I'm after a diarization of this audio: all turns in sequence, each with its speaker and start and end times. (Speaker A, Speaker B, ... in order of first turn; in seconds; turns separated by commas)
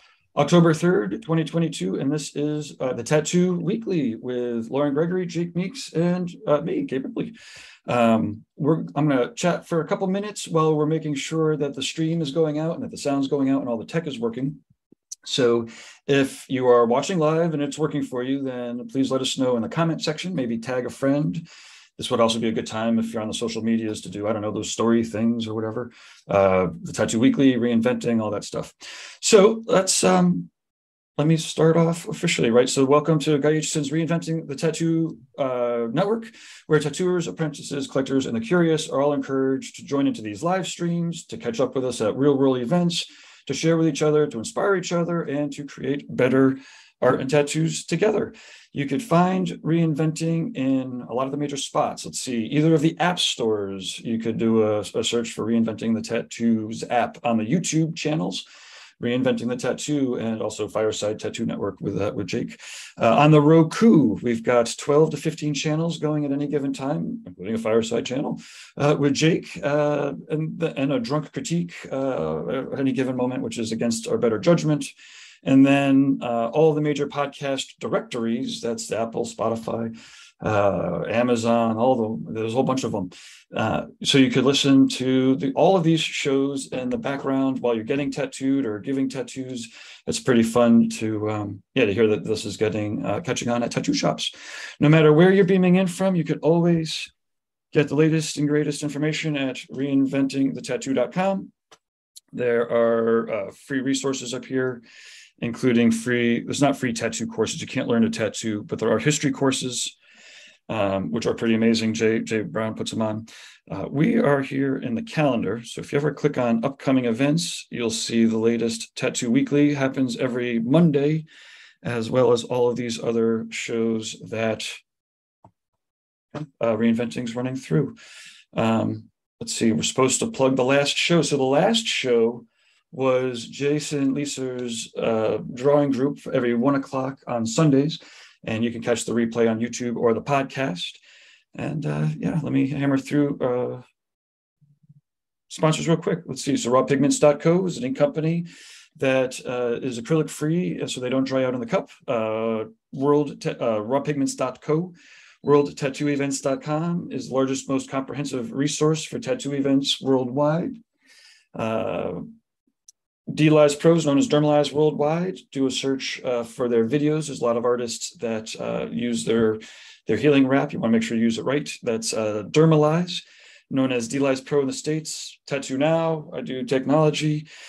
Speaker A: 0.3-7.3, Speaker A: 7.9-14.6, Speaker A: 15.2-21.4, Speaker A: 22.0-30.5, Speaker A: 31.2-58.4, Speaker A: 59.0-74.9, Speaker A: 75.4-97.1, Speaker A: 97.7-101.5, Speaker A: 102.3-104.8, Speaker A: 105.4-110.0, Speaker A: 110.7-121.3, Speaker A: 121.8-124.8, Speaker A: 126.3-128.0, Speaker A: 128.5-141.0, Speaker A: 141.6-143.8, Speaker A: 145.5-160.8, Speaker A: 161.6-162.2, Speaker A: 163.3-177.5